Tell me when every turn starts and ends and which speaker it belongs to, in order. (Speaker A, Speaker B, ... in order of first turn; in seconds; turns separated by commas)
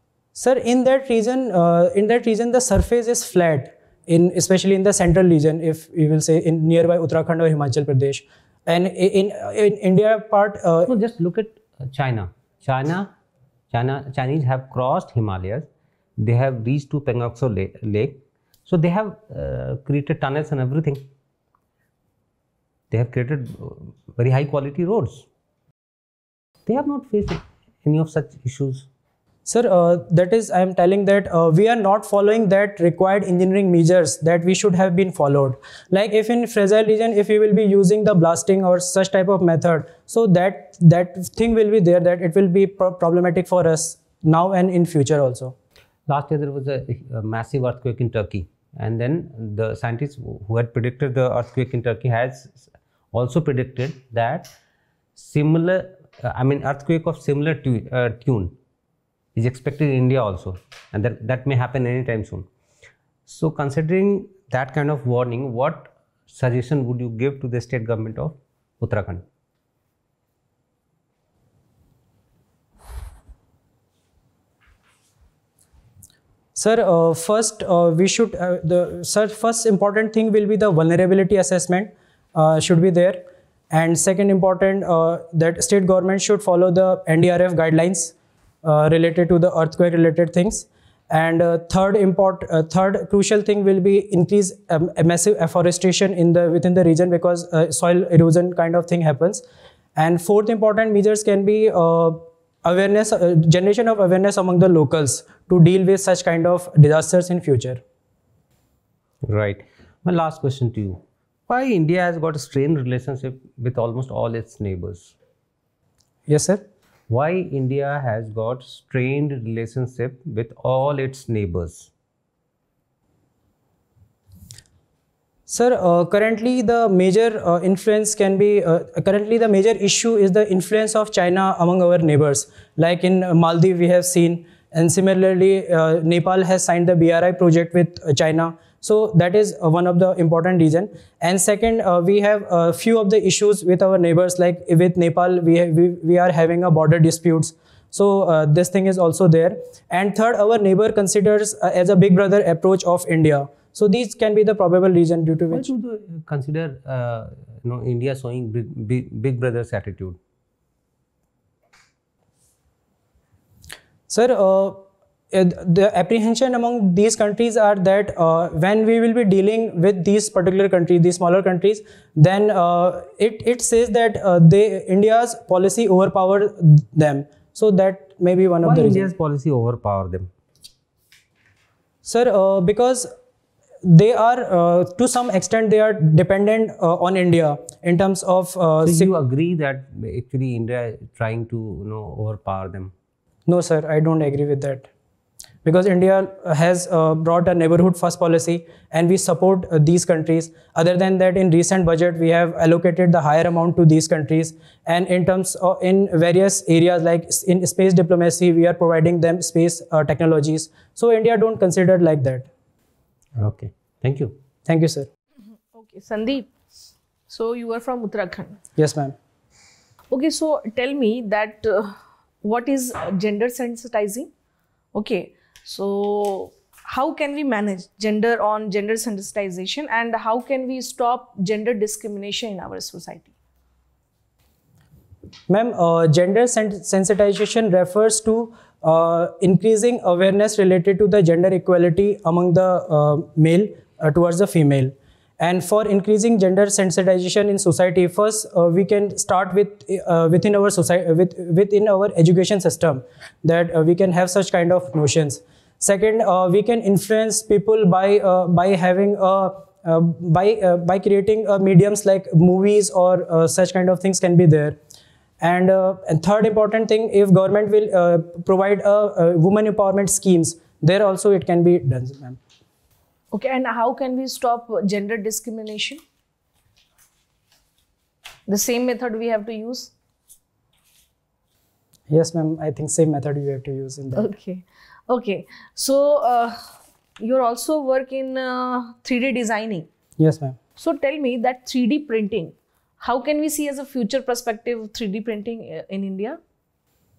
Speaker A: 0.3-10.9, Speaker B: 10.9-13.1, Speaker B: 13.7-21.1, Speaker B: 22.9-25.3, Speaker B: 26.7-28.9, Speaker A: 29.5-45.5, Speaker B: 46.1-54.5, Speaker B: 55.2-58.5, Speaker B: 59.4-62.5, Speaker B: 63.3-69.2, Speaker A: 76.6-99.4, Speaker A: 100.0-107.8, Speaker B: 109.3-115.1, Speaker A: 116.3-116.6, Speaker B: 117.1-121.9, Speaker A: 125.5-155.7, Speaker B: 155.5-160.2, Speaker A: 164.1-179.1, Speaker B: 178.6-180.3, Speaker A: 182.1-183.1, Speaker A: 183.8-189.1, Speaker B: 188.8-192.9, Speaker A: 193.5-194.9, Speaker A: 195.7-212.5, Speaker B: 213.4-214.4, Speaker A: 214.7-215.1, Speaker C: 215.7-216.5, Speaker C: 217.3-218.6, Speaker A: 218.8-219.2, Speaker C: 220.1-224.3, Speaker C: 224.9-233.3, Speaker A: 235.5-264.8, Speaker A: 265.4-272.4, Speaker C: 273.3-276.0, Speaker C: 278.5-279.9, Speaker A: 282.1-284.3, Speaker C: 284.2-286.6, Speaker C: 287.2-289.9, Speaker A: 290.2-290.6, Speaker C: 290.8-296.4